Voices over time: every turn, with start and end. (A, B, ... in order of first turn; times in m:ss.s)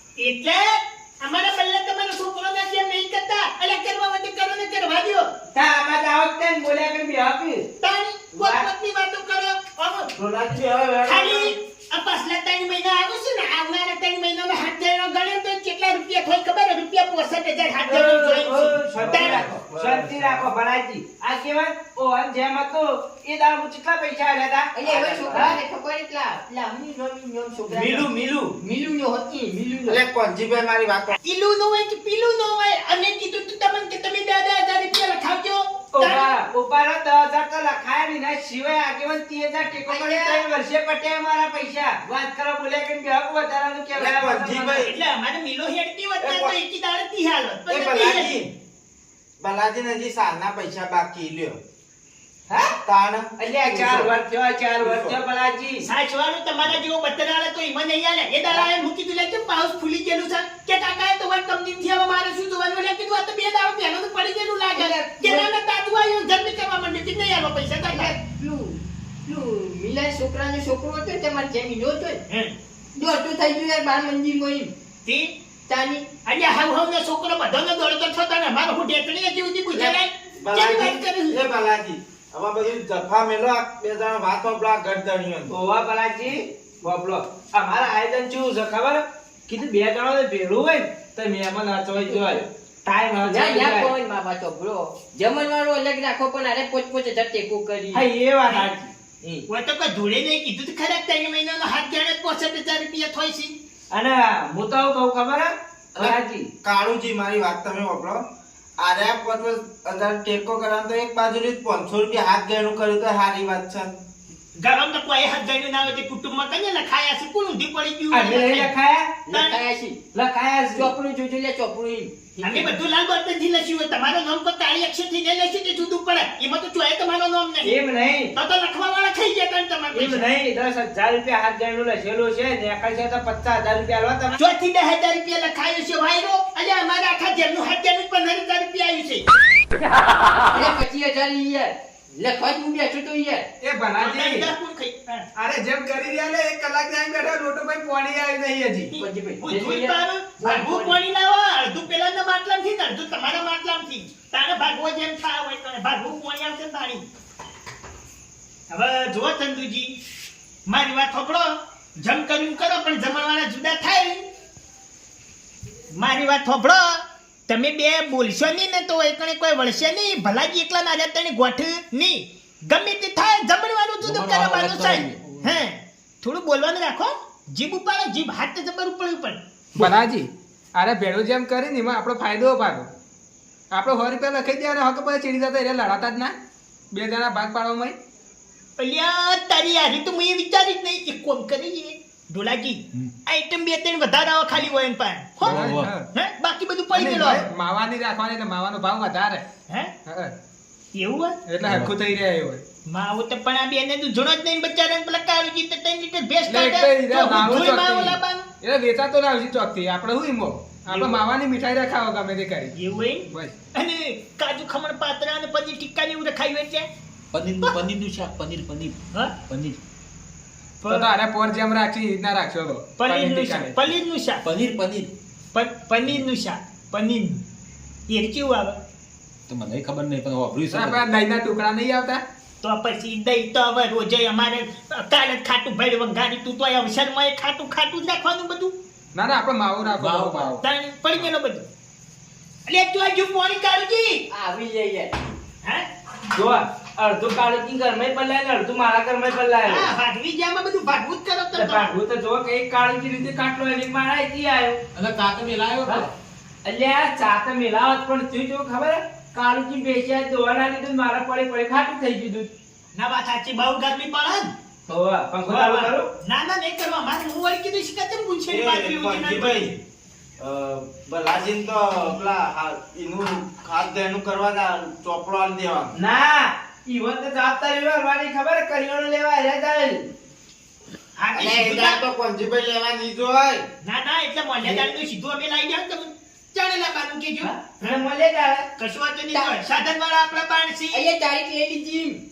0:00.2-0:05.3 A
0:05.5-0:07.6 B
0:07.8-0:10.1 A
0:08.3-0:08.6 B
0:10.2-0:11.4 C
0:11.0-0:19.4 A
0:17.9-0:24.7 B
0:19.0-0:20.4 C
0:24.7-0:28.1 D
0:24.8-0:25.6 C
0:27.7-0:28.5 B
0:28.6-0:30.0 D
0:29.8-0:31.2 C
0:31.2-0:36.3 A
0:35.9-0:44.9 B
0:39.9-0:40.4 A
0:43.9-0:44.9 C
0:44.8-0:48.4 A
0:46.2-0:46.5 C
0:47.7-0:48.4 C
0:49.4-0:51.6 C
0:52.5-0:52.8 B
0:52.6-0:54.1 C
0:53.4-0:55.8 B
0:54.8-0:55.2 C
0:55.8-1:08.1 A
1:04.7-1:05.4 B
1:07.8-1:12.2 D
1:12.3-1:12.5 A
1:13.0-1:14.7 D
1:15.0-1:15.3 A
1:15.7-1:16.0 D
1:16.2-1:21.4 A
1:19.7-1:25.5 C
1:25.5-1:33.9 B
1:33.2-1:38.0 D
1:37.9-1:39.4 B
1:39.5-1:43.5 A
1:43.9-1:46.5 B
1:46.0-1:48.2 C
1:48.8-1:53.9 C
1:54.6-1:58.7 A
1:58.1-1:59.2 B
1:59.3-2:00.0 D
1:59.3-1:59.6 A
2:00.1-2:00.9 B
2:00.7-2:02.7 D
2:02.4-2:07.8 A
2:07.6-2:08.3 B
2:08.3-2:10.3 A
2:09.9-2:14.4 B
2:14.4-2:19.2 A
2:20.5-2:23.4 D
2:23.6-2:24.5 E
2:24.0-2:25.3 A
2:25.4-2:28.9 E
2:28.9-2:37.0 A
2:29.0-2:31.0 D
2:38.7-2:39.9 A
2:40.7-2:44.2 A
2:45.9-2:59.9 A
2:54.0-2:55.4 F
2:59.8-3:02.9 E
3:03.7-3:06.3 E
3:06.9-3:07.9 E
3:08.8-3:17.4 A
3:15.4-3:16.1 E
3:15.6-3:15.9 F
3:16.9-3:19.4 E
3:20.0-3:20.3 E
3:20.9-3:21.3 A
3:21.5-3:22.6 E
3:22.9-3:28.4 A
3:26.5-3:32.7 E
3:30.9-3:31.2 A
3:32.7-3:36.9 A
3:37.3-3:38.9 F
3:39.5-3:39.8 F
3:40.8-3:41.1 A
3:40.9-3:43.8 E
3:43.0-3:44.4 A
3:44.4-3:45.1 F
3:45.5-3:47.4 A
3:48.1-3:48.8 A
3:49.5-3:51.0 F
3:50.7-3:52.2 E
3:52.6-3:58.7 A
3:59.1-4:01.3 E
4:00.0-4:00.5 F
4:00.6-4:01.7 A
4:02.7-4:04.2 A
4:04.3-4:05.3 D
4:06.3-4:09.9 B
4:09.6-4:11.9 A
4:11.5-4:14.8 B
4:14.9-4:16.0 F
4:16.6-4:22.5 B
4:22.9-4:24.5 A
4:24.9-4:26.1 B
4:25.4-4:29.7 A
4:28.5-4:29.8 C
4:30.4-4:35.9 C
4:35.9-4:40.0 B
4:41.2-4:42.0 A
4:41.4-4:43.6 C
4:43.8-4:48.0 A
4:47.4-4:48.6 B
4:48.8-4:51.0 A
4:49.3-4:49.6 D
4:50.9-4:52.2 D